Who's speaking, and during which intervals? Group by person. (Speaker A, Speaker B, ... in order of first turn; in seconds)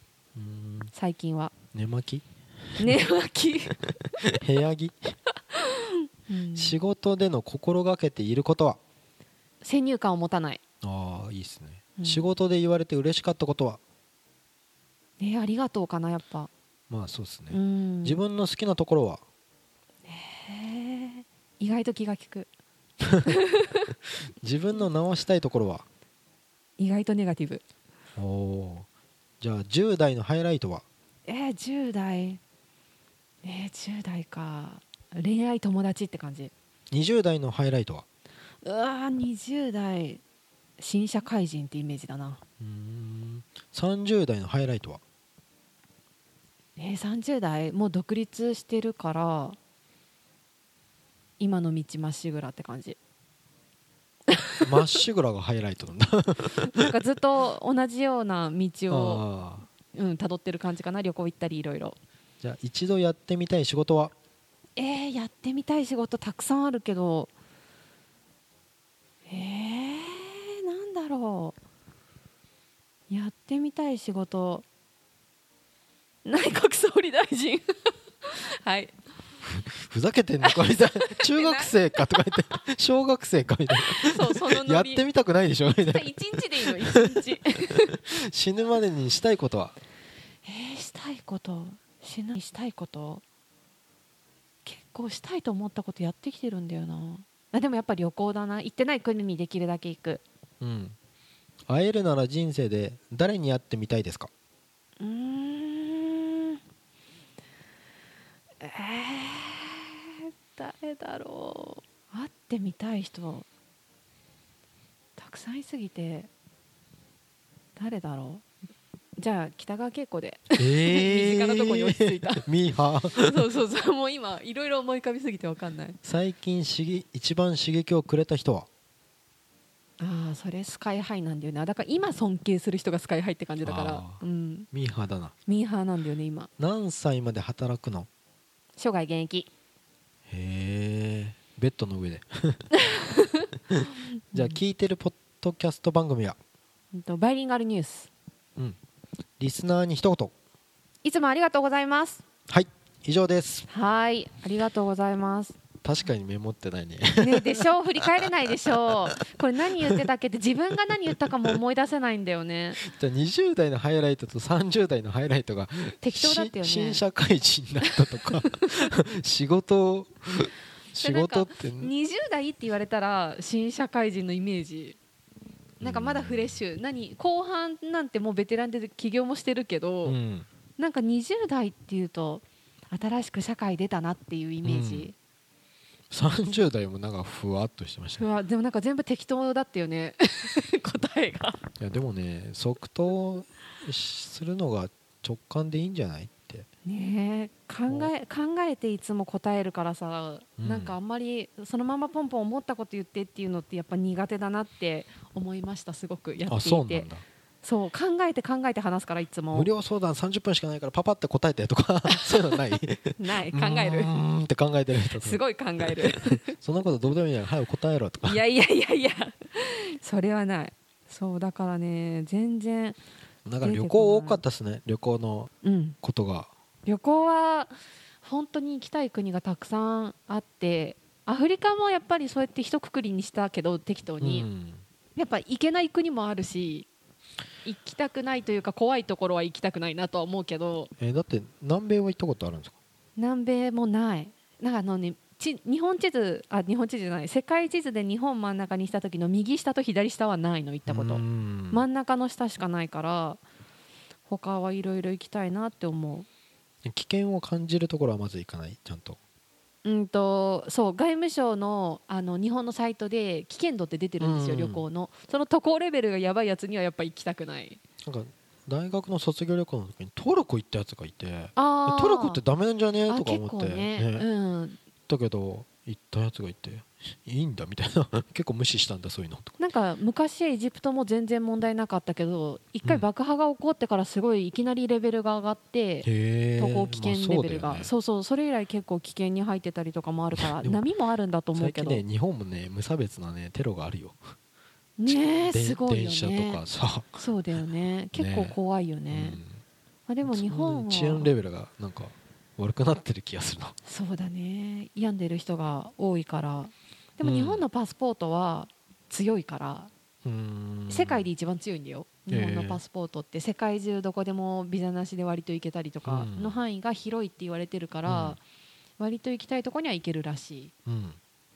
Speaker A: 0.3-0.9, 1.7-3.0, 4.2-5.2, 6.5-8.8, 10.8-13.8, 16.9-19.2, 23.0-23.4, 24.4-25.9, 28.1-28.9, 29.4-30.8, 36.9-38.0, 42.6-45.0, 54.6-56.9, 58.9-59.7, 62.4-64.1, 79.4-87.3, 87.9-89.7, 100.6-101.0, 101.7-104.3, 120.6-123.5, 126.0-128.7, 133.6-135.3, 136.6-138.1, 140.3-142.7, 143.7-146.4, 149.4-150.3, 152.5-153.7, 155.8-158.2, 162.8-171.9, 175.8-176.6, 180.0-180.5, 184.6-185.1, 186.1-188.2, 191.8-196.7, 200.6-200.9, 206.4-207.2, 209.5-218.4, 223.4-226.5, 234.2-234.8, 241.0-242.8, 250.8-251.8, 256.8-259.2, 264.2-264.8, 268.0-274.3, 275.1-279.5, 286.0-287.9, 290.4-290.8, 291.5-294.2, 295.1-297.2, 298.1-298.5, 299.1-299.5, 300.2-303.8, 307.2-307.6, 310.2-311.3, 312.3-312.8, 316.0-316.6, 318.1-318.4, 320.9-321.2
Speaker B: 0.9-1.5, 2.8-3.9, 5.5-6.8, 9.6-10.6, 12.0-12.3, 15.2-16.5, 17.5-18.2, 20.1-22.5, 23.2-23.9, 26.8-27.6, 31.3-32.4, 33.4-36.5, 38.6-40.2, 40.8-42.4, 46.8-49.6, 51.4-53.0, 54.3-54.9, 56.5-59.2, 59.9-62.0, 64.8-67.3, 69.3-71.5, 73.1-74.6, 76.2-77.6, 78.2-78.9, 80.4-82.3, 83.7-85.0, 85.9-88.0, 90.4-93.2, 94.6-100.2, 105.0-106.6, 108.6-113.5, 115.2-116.3, 117.8-118.4, 119.2-122.5, 123.2-126.0, 130.0-134.7, 135.4-136.5, 138.8-139.5, 142.8-144.5, 146.9-148.1, 151.0-152.2, 153.7-155.6, 157.2-162.8, 166.0-167.0, 171.0-175.0, 175.8-180.2, 180.8-185.1, 188.2-191.6, 196.8-207.1, 207.6-209.7, 212.1-214.1, 215.2-216.5, 218.2-223.0, 223.6-224.4, 225.6-226.0, 226.8-234.5, 235.2-236.9, 237.6-240.9, 243.2-253.4, 254.3-256.3, 259.8-267.8, 271.6-272.4, 273.1-274.8, 279.6-292.0, 295.0-296.6, 297.1-299.4, 300.1-301.3, 303.8-309.9, 310.9-318.4, 319.0-320.7